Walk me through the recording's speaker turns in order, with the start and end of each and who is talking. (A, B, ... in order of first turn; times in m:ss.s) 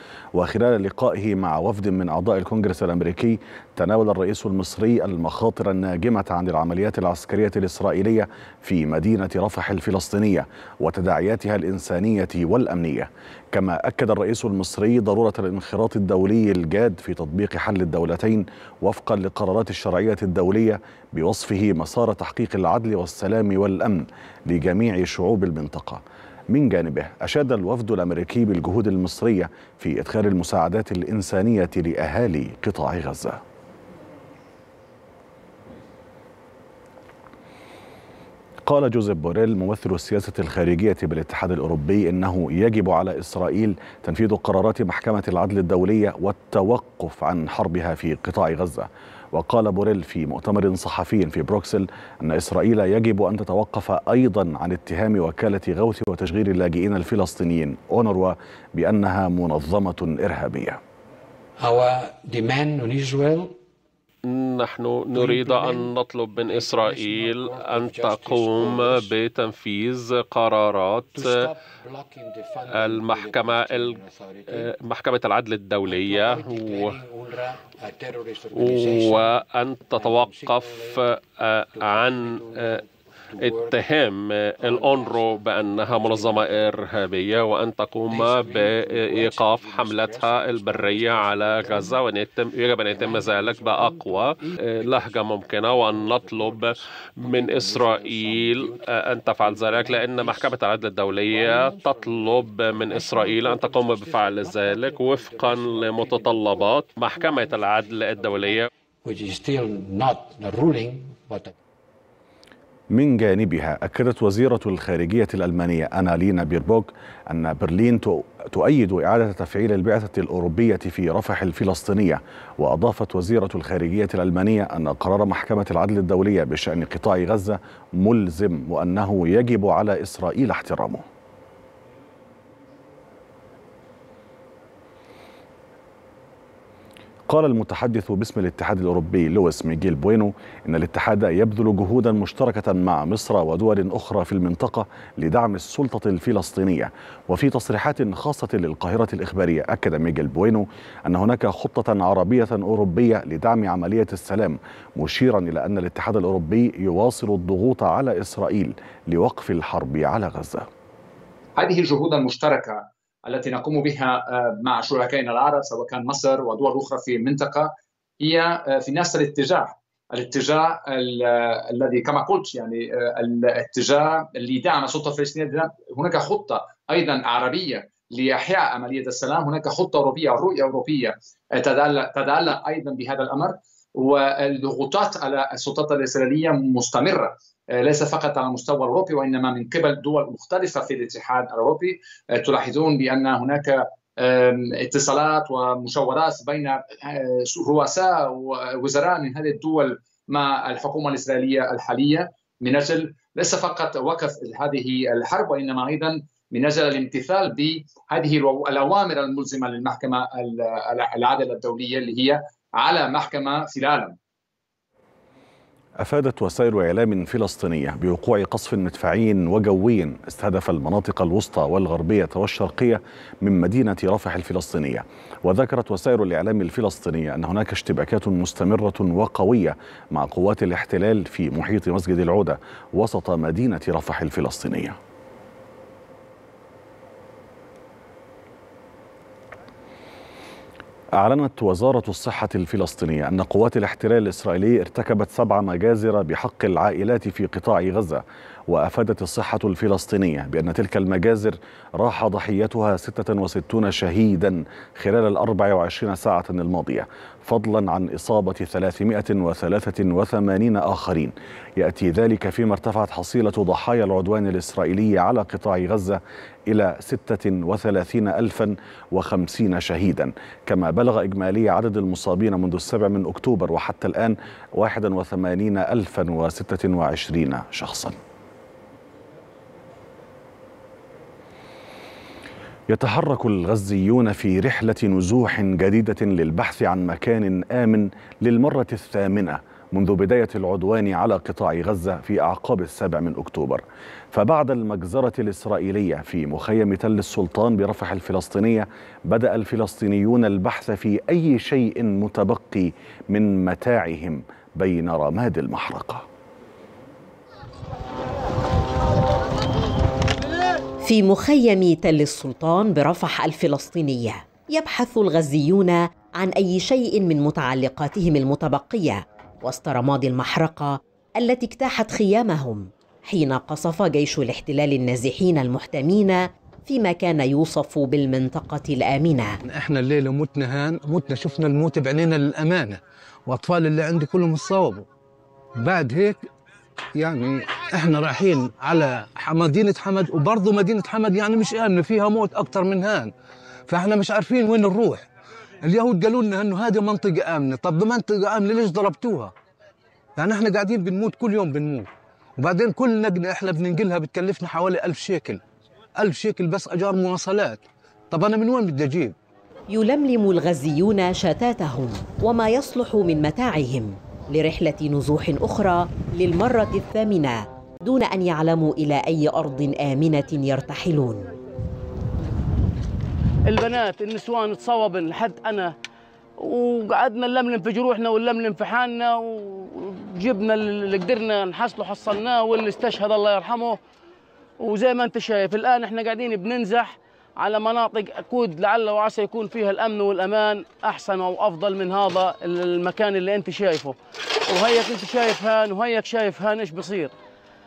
0:00.3-0:33.4 A
0:38.6-1:00.8 A
1:01.6-1:03.6 B
1:04.3-1:11.3 C
1:05.1-1:09.2 B
1:11.1-1:14.7 B
1:12.7-1:14.0 C
1:14.5-1:16.9 C
1:15.8-1:19.4 B
1:18.6-1:22.8 C
1:19.9-1:21.1 B
1:21.7-1:23.8 B
1:23.4-1:48.7 C
1:24.6-1:26.7 B
1:28.1-1:32.0 B
1:32.8-1:40.6 B
1:41.1-1:51.5 B
1:52.9-2:11.0 A
2:17.3-2:40.6 A
2:41.6-3:34.2 D
3:36.0-3:55.0 A
4:01.2-4:38.2 A
4:42.9-5:06.2 A
5:11.0-5:29.6 E
5:29.6-5:35.0 F
5:35.8-5:36.5 F
5:37.2-5:43.3 F
5:43.9-5:45.3 F
5:45.8-5:49.5 F
5:50.4-5:55.6 F
5:56.2-5:59.3 F
5:59.9-6:11.5 E
6:13.7-6:15.9 G
6:16.6-6:24.0 G
6:24.8-6:34.2 G
6:34.7-6:37.3 G